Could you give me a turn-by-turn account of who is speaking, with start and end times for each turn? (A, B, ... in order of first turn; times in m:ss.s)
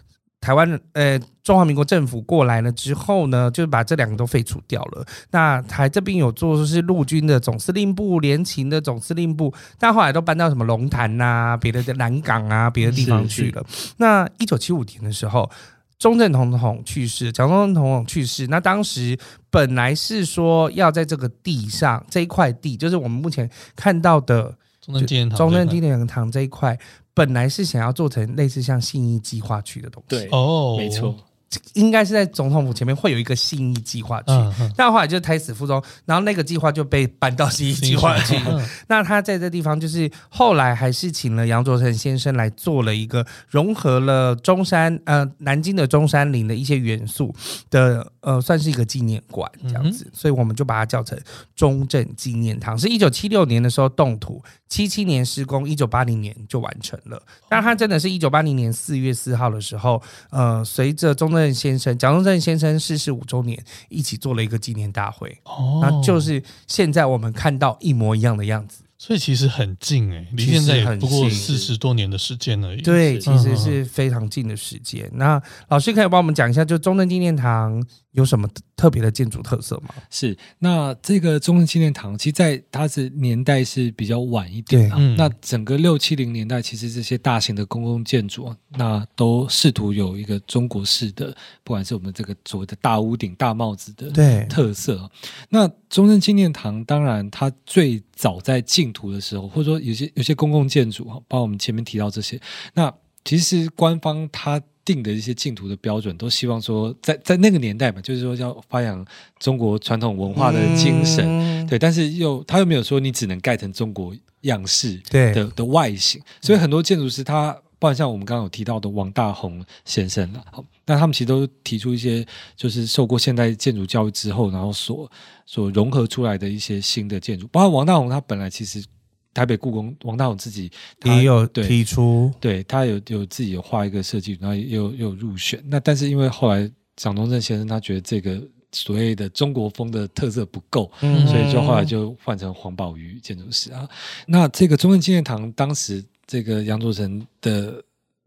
0:00.4-0:30.3 A
0:12.8-0:13.1 B
0:13.0-0:13.5 C
0:24.8-0:25.8 B
0:30.1-0:31.2 C
0:30.3-0:31.1 B
0:31.5-1:08.8 A
0:34.3-0:34.8 B
0:37.8-0:38.7 B
0:49.6-0:50.0 B
1:05.5-1:06.3 B
1:09.0-1:13.8 B
1:10.4-1:11.5 A
1:11.2-1:11.7 C
1:12.8-1:20.0 A
1:20.1-2:11.8 C
1:24.7-1:25.0 A
1:24.9-1:25.3 B
1:34.1-1:34.5 A
1:50.3-1:51.7 A
1:55.1-1:55.4 A
2:11.0-2:12.4 A
2:12.4-2:27.8 C
2:21.0-2:21.9 A
2:21.1-2:21.4 B